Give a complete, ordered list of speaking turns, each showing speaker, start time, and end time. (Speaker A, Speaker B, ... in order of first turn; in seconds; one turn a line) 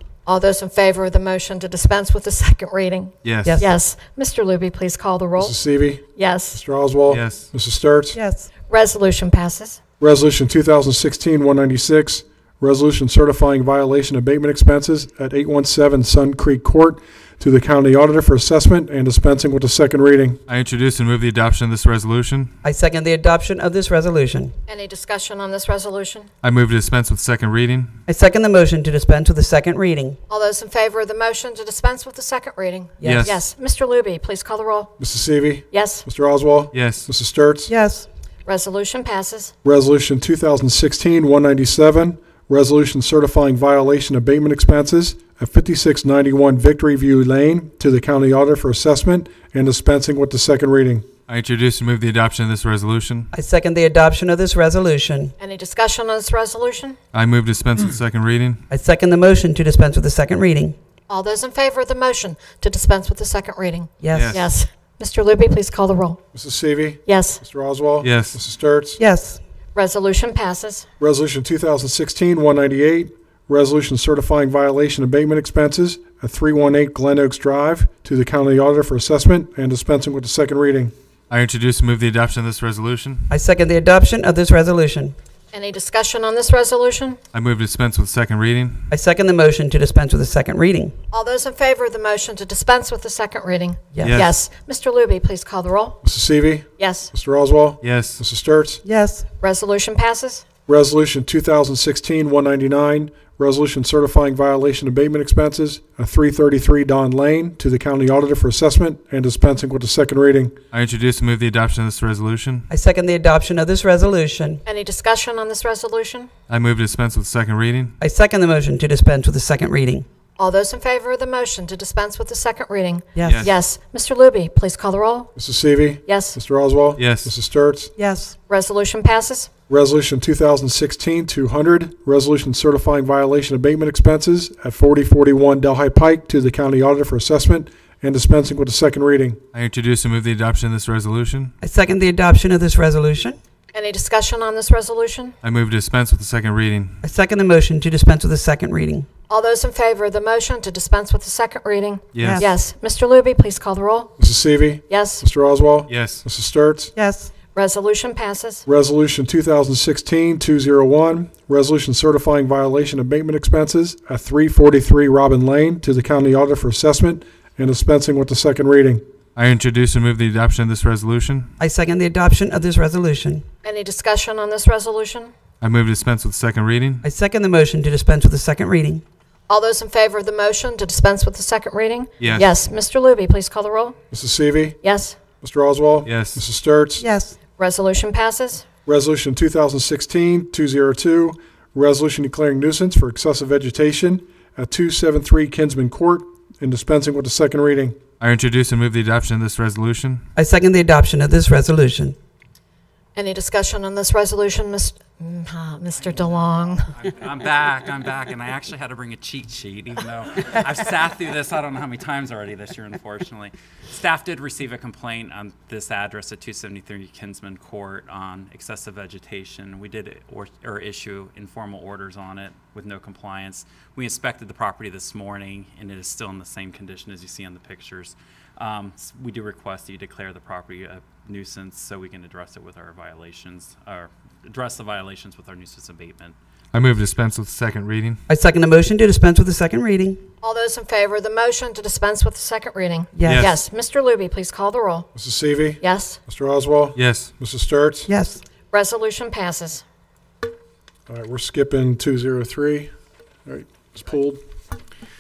Speaker A: 0.3-5.6
Speaker B: 3.2-3.6
Speaker C: 3.4-3.7
Speaker D: 5.4-8.2
Speaker A: 6.2-6.6
Speaker B: 7.1-7.5
Speaker C: 8.1-8.5
Speaker A: 8.7-9.8
Speaker D: 10.0-20.4
Speaker B: 20.5-22.6
Speaker C: 22.6-24.5
Speaker A: 24.7-26.3
Speaker B: 26.4-27.9
Speaker C: 28.1-30.2
Speaker A: 30.3-34.9
Speaker C: 33.0-33.3
Speaker B: 33.0-33.4
Speaker D: 35.0-37.7
Speaker A: 35.7-36.1
Speaker B: 36.7-37.1
Speaker C: 37.7-38.1
Speaker A: 38.5-39.5
Speaker D: 39.6-51.1
Speaker B: 51.3-53.3
Speaker C: 53.3-55.4
Speaker A: 55.4-57.0
Speaker B: 57.1-58.6
Speaker C: 58.7-60.8
Speaker A: 61.1-66.2
Speaker C: 64.0-64.4
Speaker B: 64.1-64.5
Speaker D: 66.3-69.0
Speaker A: 67.1-67.4
Speaker B: 68.0-68.4
Speaker C: 69.0-69.4
Speaker A: 69.8-70.8
Speaker D: 71.0-80.9
Speaker B: 81.3-83.3
Speaker C: 83.3-85.2
Speaker A: 85.5-87.2
Speaker B: 87.3-88.8
Speaker C: 88.9-90.9
Speaker A: 91.1-96.0
Speaker C: 93.9-94.2
Speaker B: 94.0-94.3
Speaker D: 96.0-98.8
Speaker A: 96.8-97.1
Speaker B: 97.8-98.2
Speaker C: 98.8-99.3
Speaker A: 99.4-100.5
Speaker D: 100.7-110.5
Speaker B: 110.7-112.7
Speaker C: 112.7-114.6
Speaker A: 114.7-116.3
Speaker B: 116.5-117.9
Speaker C: 118.0-120.1
Speaker A: 120.4-125.3
Speaker C: 123.2-123.5
Speaker B: 123.2-123.6
Speaker D: 125.4-127.9
Speaker A: 126.1-126.4
Speaker B: 127.0-127.3
Speaker C: 128.0-128.3
Speaker A: 128.5-129.5
Speaker D: 129.7-139.4
Speaker B: 139.5-141.5
Speaker C: 141.6-143.4
Speaker A: 143.7-145.4
Speaker B: 145.4-147.0
Speaker C: 147.0-149.1
Speaker A: 149.3-154.1
Speaker B: 152.1-152.4
Speaker C: 152.2-152.5
Speaker D: 154.2-156.9
Speaker A: 154.9-155.2
Speaker B: 155.9-156.2
Speaker C: 156.9-157.3
Speaker A: 157.6-158.6
Speaker D: 158.7-169.0
Speaker B: 169.4-171.5
Speaker C: 171.6-173.5
Speaker A: 173.6-175.3
Speaker B: 175.6-177.0
Speaker C: 177.0-179.0
Speaker A: 179.5-184.0
Speaker B: 182.2-182.5
Speaker D: 184.1-184.8
Speaker A: 184.8-185.2
Speaker D: 185.4-187.0
Speaker B: 186.1-186.4
Speaker C: 187.0-187.4
Speaker A: 187.6-188.7
Speaker D: 188.9-198.0
Speaker B: 198.2-200.2
Speaker C: 200.4-202.2
Speaker A: 203.2-206.9
Speaker E: 205.9-236.4
Speaker B: 236.7-238.2
Speaker C: 238.3-240.2
Speaker A: 240.4-245.1
Speaker C: 243.2-243.5
Speaker B: 243.2-243.6
Speaker D: 245.2-248.1
Speaker A: 245.8-246.2
Speaker B: 246.9-247.3
Speaker C: 248.1-248.4
Speaker A: 248.7-249.8
Speaker D: 251.1-252.9
Speaker D: 253.5-254.4